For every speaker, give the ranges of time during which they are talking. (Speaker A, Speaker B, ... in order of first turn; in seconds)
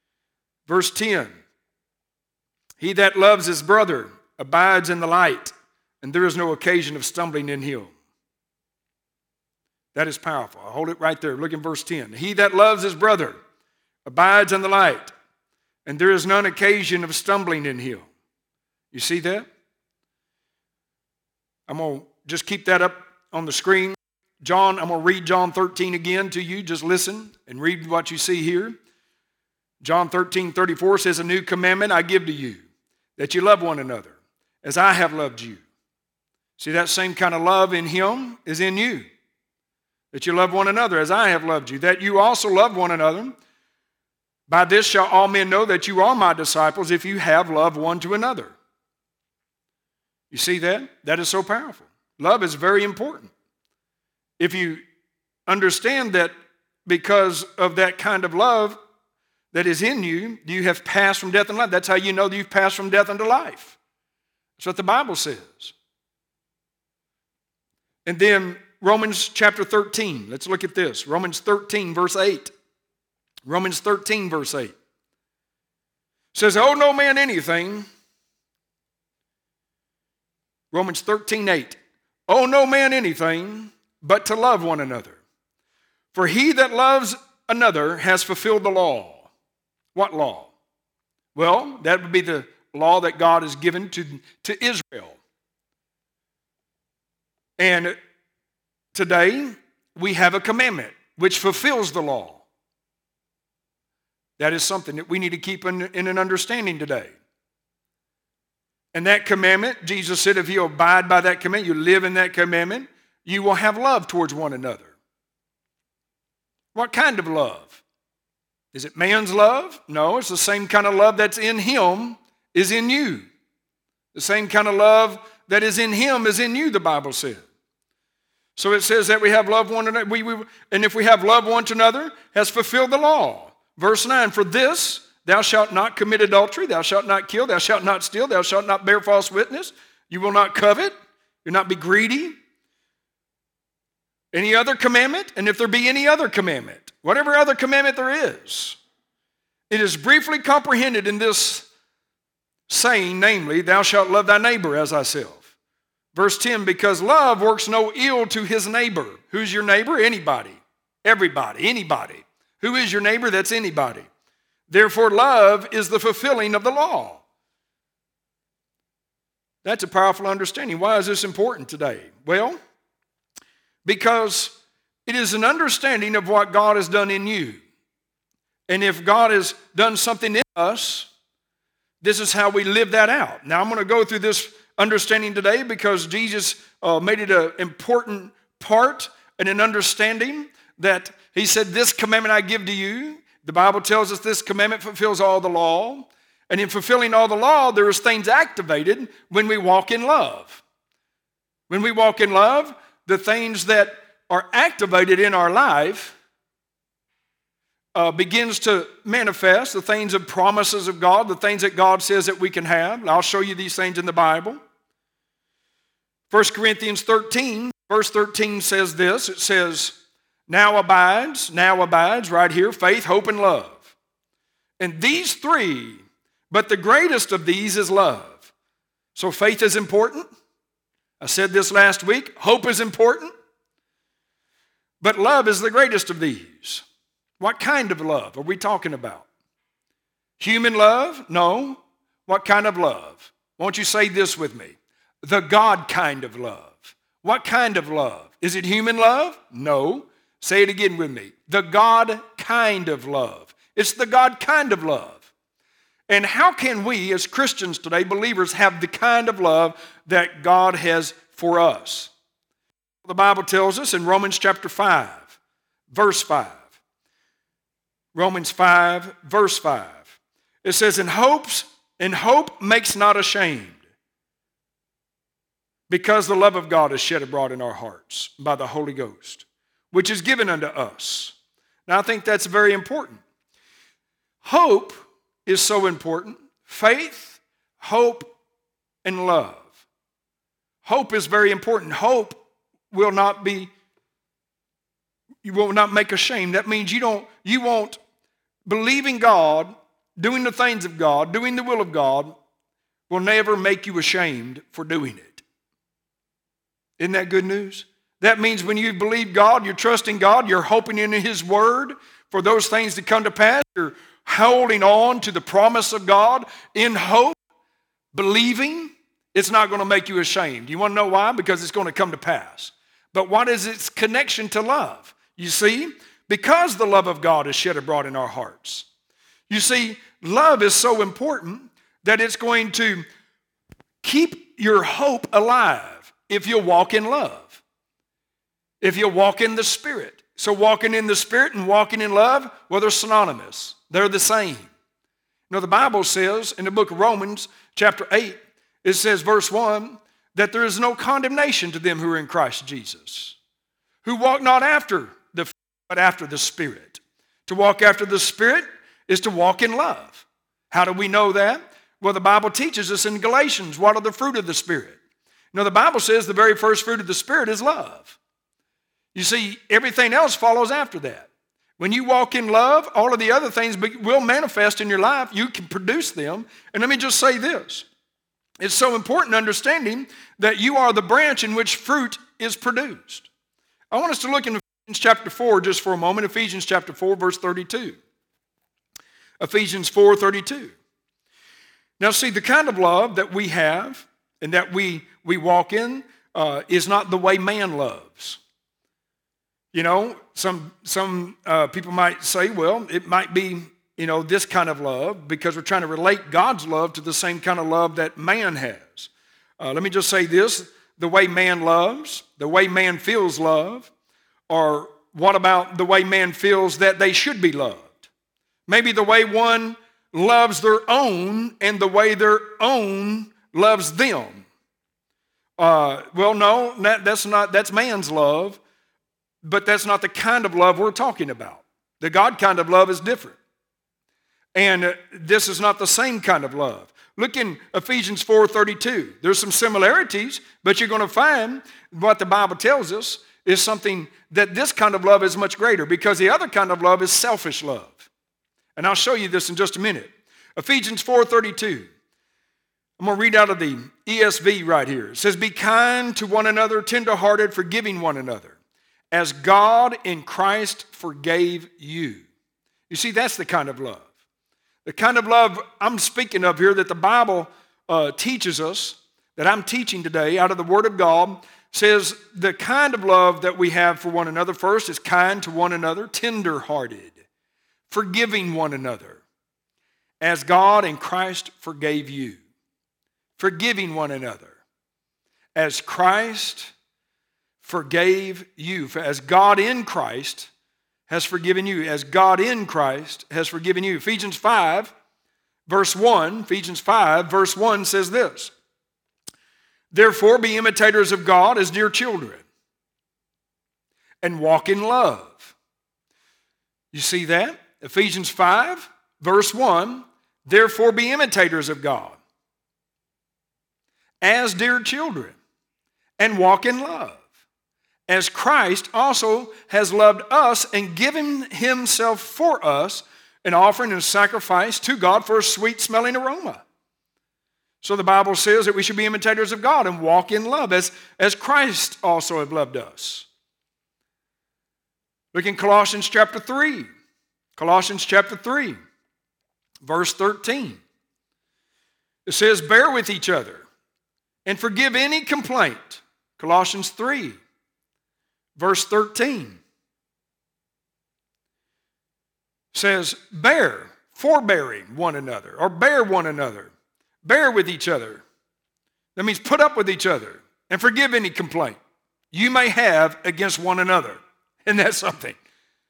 Speaker A: 0.7-1.4, 2.8-7.9, 9.9-13.4, 14.0-15.1, 15.8-18.1, 18.9-19.5, 21.7-28.8, 29.8-32.6, 33.2-35.6, 36.6-39.1, 40.1-43.3, 44.5-48.5, 50.3-53.3, 54.4-54.8, 55.5-56.3, 56.8-58.8, 59.5-63.8, 64.6-65.7, 68.0-72.5, 73.5-74.7, 76.3-77.9, 80.7-85.2, 86.1-89.3, 89.9-90.5, 91.3-95.2, 97.6-98.0, 98.9-102.4, 104.4-107.1, 108.9-114.9, 116.7-117.8, 118.7-123.3, 124.1-127.4, 128.6-140.9, 141.4-142.3, 144.3-148.8, 149.7-151.7, 152.7-155.4, 156.1-164.1, 164.7-167.2, 169.6-172.6, 173.8-177.6, 178.7-181.1, 182.0-200.6, 201.7-206.2, 207.9-214.6, 216.3-220.0, 220.5-223.9, 224.8-228.5, 229.1-230.3, 231.2-233.3, 235.0-236.8, 237.4-239.2, 240.4-255.3, 256.1-262.1, 263.0-265.3, 265.9-266.6, 268.1-270.1, 270.6-273.8, 275.9-281.3, 281.9-283.2, 284.4-288.3, 289.0-289.7, 290.8-292.4, 292.9-293.7, 295.4-298.0, 298.6-302.4, 303.1-305.4, 307.0-317.3, 318.1-328.9, 329.5-333.0, 334.0-337.6, 338.8-344.7, 345.5-353.4, 354.0-365.0, 365.5-368.2, 369.1-377.8, 378.6-383.3, 383.9-388.0, 389.4-390.7, 392.0-398.4, 399.7-413.9, 414.5-418.1, 418.7-424.4, 425.6-428.6, 429.4-433.4, 434.5-448.1, 448.8-451.9, 453.0-458.6, 459.1-462.2, 462.9-464.1, 464.8-477.2, 477.9-479.2, 480.2-482.4, 483.4-484.6, 485.5-486.7, 487.6-490.5, 491.1-494.9, 495.7-498.5, 499.9-502.4, 504.2-505.5, 506.9-512.2, 514.2-515.4, 516.2-517.2, 518.1-526.6, 527.8-533.3, 535.3-536.9, 537.5-538.8, 539.8-540.8, 542.2-543.6, 544.4-547.4, 548.5-549.6, 552.7-556.7, 557.2-558.2, 559.1-561.8, 562.3-565.4